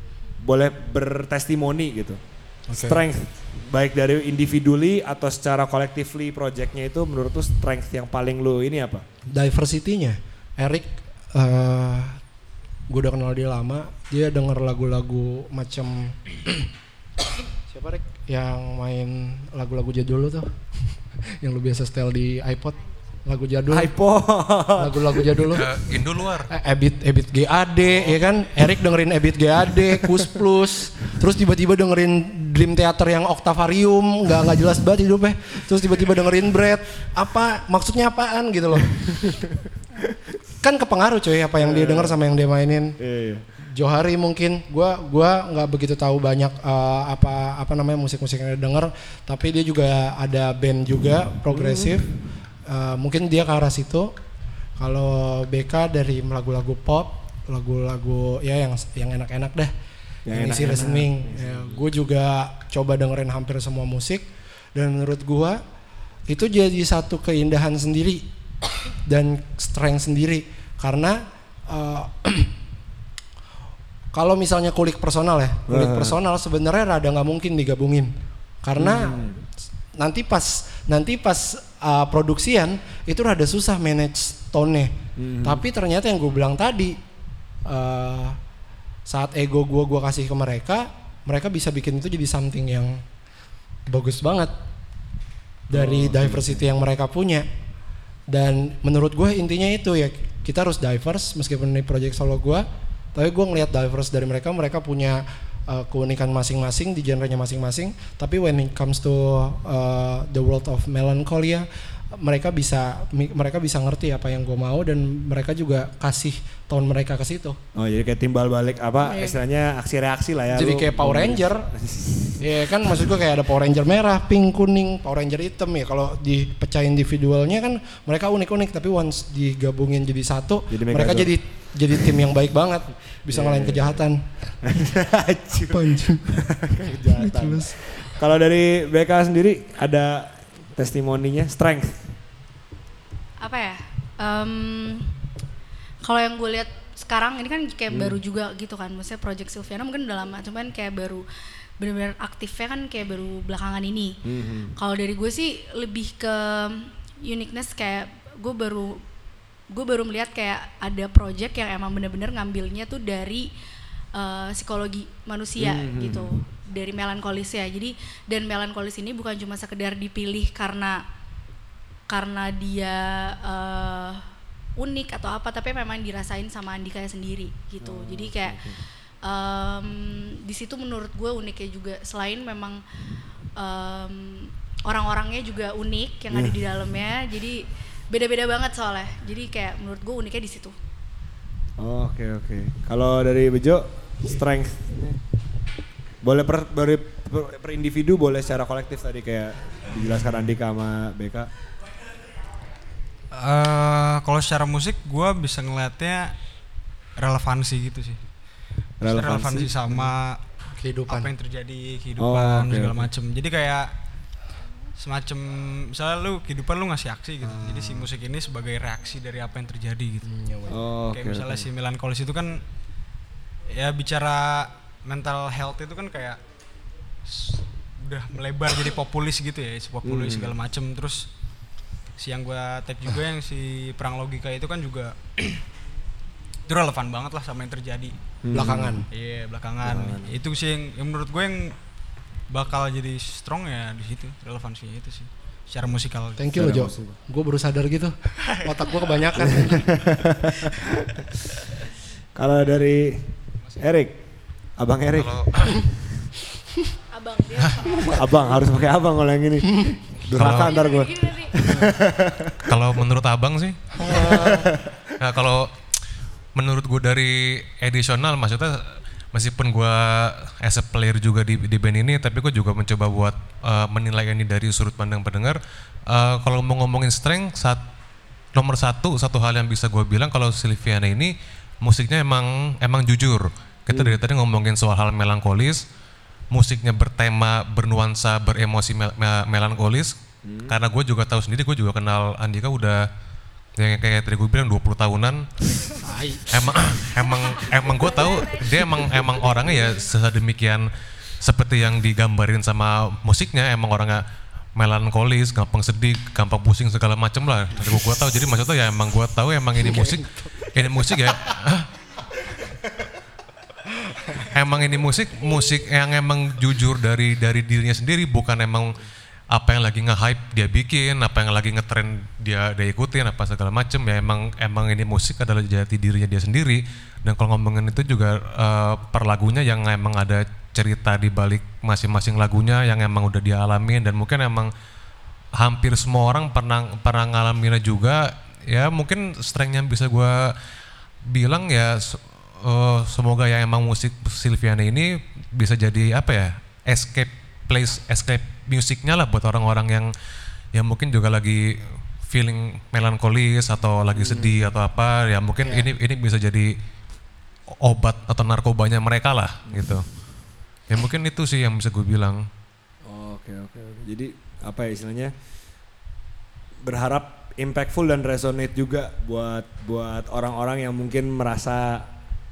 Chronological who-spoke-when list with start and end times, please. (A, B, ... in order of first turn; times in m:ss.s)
0:00.4-0:02.2 A
0:02.7-0:03.0 B
0:02.7-0:09.0 A
0:09.3-0:12.2 B
0:12.9-0:16.7 B
0:17.7-0:23.9 B
0:23.7-0:25.6 A
0:24.8-0:25.7 B
0:25.5-0:26.5 C
0:26.5-0:39.4 B
0:27.9-0:28.2 A
0:29.7-0:30.4 A
0:38.9-0:40.2 A
0:40.6-0:43.0 B
0:41.6-0:42.2 A
0:43.0-0:43.5 A
0:43.6-0:52.1 B
0:51.5-0:52.1 A
0:52.6-0:54.1 B
0:54.8-0:59.7 B
1:00.3-1:01.9 A
1:00.3-1:05.6 B
1:06.3-1:08.3 B
1:09.1-1:12.5 B
1:14.1-1:19.3 B
1:15.7-1:16.2 A
1:18.8-1:19.4 A
1:20.0-1:27.0 B
1:25.2-1:25.6 A
1:27.6-1:28.4 B
1:29.1-1:33.0 B
1:33.9-1:34.5 B
1:35.7-1:37.5 B
1:35.7-1:36.7 A
1:38.3-1:57.6 B
1:57.8-2:03.2 A
1:59.0-1:59.4 B
2:00.5-2:01.7 B
2:02.4-2:14.2 B
2:10.7-2:11.3 A
2:13.3-2:14.0 A
2:14.6-2:22.1 A
2:15.7-2:16.4 B
2:17.1-2:17.8 B
2:23.4-2:25.2 D
2:26.0-2:31.2 D
2:27.9-2:28.2 A
2:31.8-2:34.2 D
2:34.2-2:34.7 A
2:34.8-2:39.0 D
2:39.7-2:43.5 D
2:44.1-2:51.0 D
2:45.6-2:46.4 A
2:52.1-2:54.2 D
2:54.8-3:02.8 D
2:57.8-2:58.8 A
3:03.6-3:10.8 D
3:06.3-3:06.6 A
3:11.8-3:15.2 A
3:16.2-3:21.5 A
3:23.3-3:26.4 E
3:27.2-3:28.2 E
3:29.0-3:30.1 A
3:29.0-3:30.4 E
3:30.8-3:31.3 B
3:31.1-3:33.9 E
3:32.2-3:33.1 A
3:35.0-3:40.3 E
3:40.2-3:40.8 B
3:40.7-3:41.7 A
3:41.1-3:42.6 E
3:43.7-3:46.4 E
3:47.2-3:51.3 E
3:50.0-3:50.6 A
3:52.2-3:55.6 E
3:56.7-3:58.2 E
3:58.4-3:59.0 A
3:58.5-3:59.1 B
3:59.1-4:01.8 E
3:59.8-4:00.3 A
4:02.5-4:06.4 E
4:06.4-4:10.5 B
4:06.5-4:07.2 A
4:09.4-4:11.2 A
4:12.4-4:14.2 A
4:14.8-4:16.2 A
4:15.2-4:15.8 C
4:17.1-4:18.4 D
4:17.8-4:22.8 A
4:20.3-4:20.8 C
4:20.7-4:21.6 D
4:22.6-4:24.3 C
4:24.0-4:24.7 B
4:24.0-4:25.1 A
4:25.2-4:25.7 C
4:26.6-4:37.8 C
4:38.5-4:45.9 C
4:43.9-4:44.2 A
4:46.5-4:50.2 C
4:50.4-4:50.8 A
4:50.7-4:53.0 C
4:53.8-4:55.9 C
4:56.0-4:56.6 B
4:56.5-5:00.9 C
5:01.4-5:04.2 C
5:04.8-5:11.9 C
5:09.8-5:11.0 B
5:14.0-5:14.4 B
5:14.4-5:18.9 C
5:19.5-5:34.7 C
5:35.5-5:40.6 C
5:41.2-5:50.1 C
5:50.7-5:56.7 C
5:54.1-5:54.7 A
5:55.6-5:55.9 B
5:57.8-6:00.1 C
5:59.7-6:00.0 A
6:00.9-6:02.5 C
6:03.0-6:05.3 A
6:06.8-6:12.1 A